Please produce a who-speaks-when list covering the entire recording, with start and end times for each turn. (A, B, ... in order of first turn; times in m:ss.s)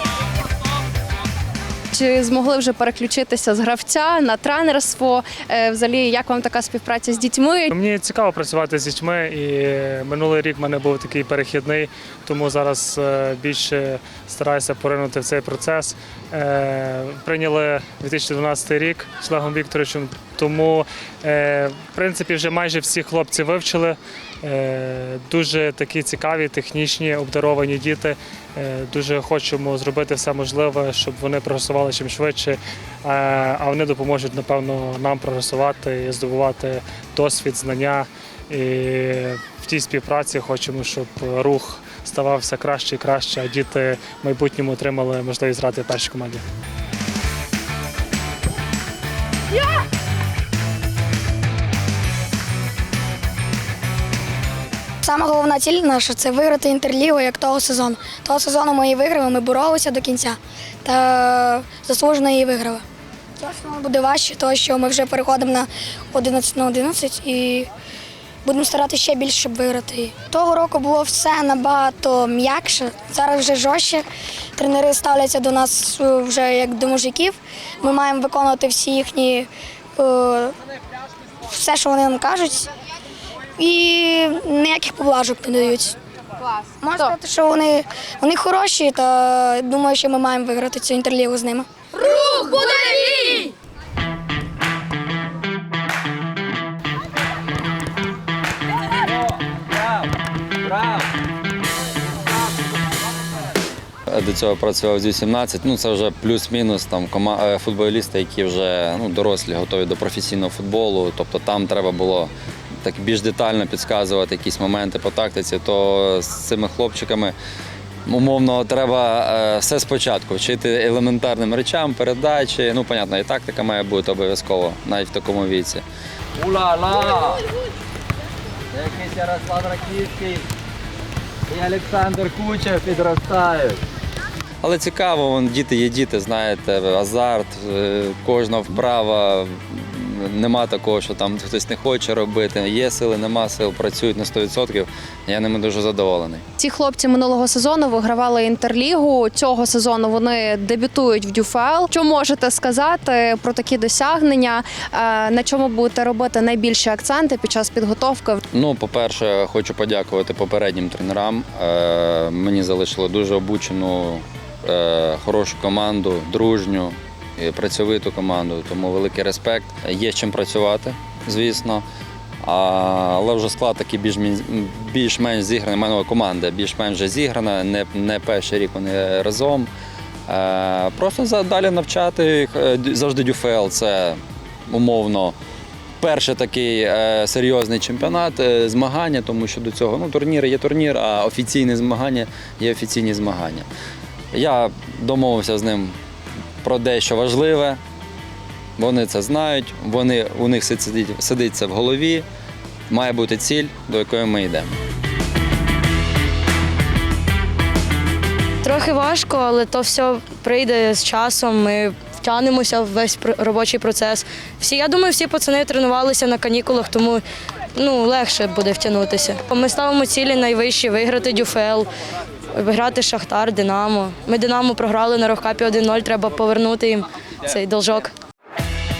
0:01.9-0:07.7 A
0:07.7-0:46.4 B
0:55.0-1:02.8 C
1:03.4-1:07.7 C
1:08.4-1:20.6 C
1:21.4-1:22.7 C
1:23.6-1:26.0 C
1:26.8-1:31.7 C
1:44.1-1:52.3 D
1:52.8-1:57.3 D
1:58.1-2:05.8 D
2:06.6-2:07.3 E
2:09.0-2:10.4 E
2:11.5-2:13.7 E
2:14.6-2:26.4 D
2:26.6-2:38.4 A
2:38.5-2:51.8 D
2:52.4-2:59.7 D
3:00.3-3:05.3 D
3:06.0-3:13.7 D
3:14.3-3:16.0 D
3:16.6-3:17.8 D
3:18.8-3:22.2 D
3:22.9-3:24.7 D
3:28.6-3:37.2 F
3:37.7-3:41.9 F
3:42.5-3:48.1 F